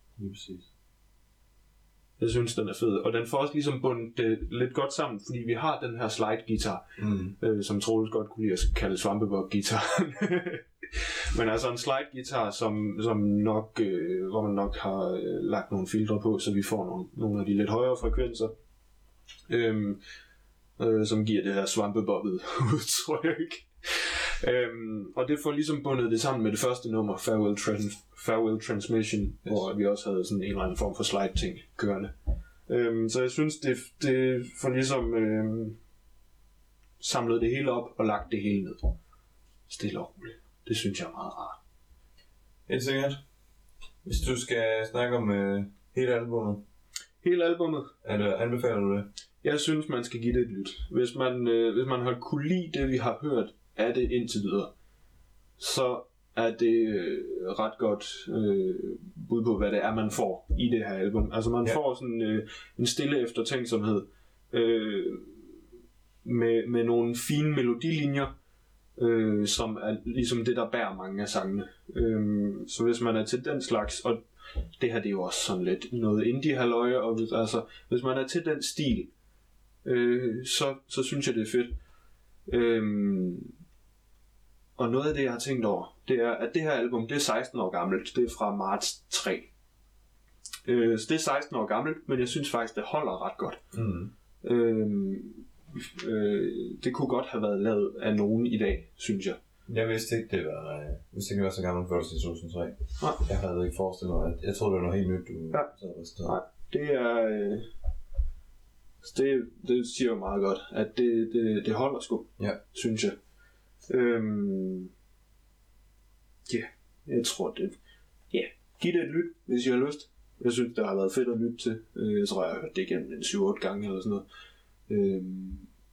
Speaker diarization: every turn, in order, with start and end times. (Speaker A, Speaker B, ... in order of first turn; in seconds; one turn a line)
Speaker A: 0.2-0.7
Speaker B: 2.2-6.9
Speaker A: 7.0-7.4
Speaker B: 7.4-18.5
Speaker B: 19.5-20.0
Speaker B: 20.8-32.1
Speaker B: 32.7-35.8
Speaker B: 37.0-39.0
Speaker B: 39.7-41.6
Speaker A: 42.7-43.2
Speaker A: 44.0-46.6
Speaker B: 47.2-47.9
Speaker A: 48.0-49.1
Speaker B: 49.4-54.7
Speaker B: 55.6-65.4
Speaker B: 66.2-68.3
Speaker B: 69.0-74.2
Speaker B: 74.8-79.1
Speaker B: 79.8-81.7
Speaker B: 82.5-83.5
Speaker B: 84.8-89.5
Speaker B: 90.7-93.6
Speaker A: 93.7-94.1
Speaker B: 94.4-99.4
Speaker A: 99.7-106.4
Speaker B: 106.2-107.7
Speaker B: 109.0-113.2
Speaker B: 113.9-114.9
Speaker B: 116.5-117.8
Speaker B: 118.3-124.2
Speaker B: 124.9-125.7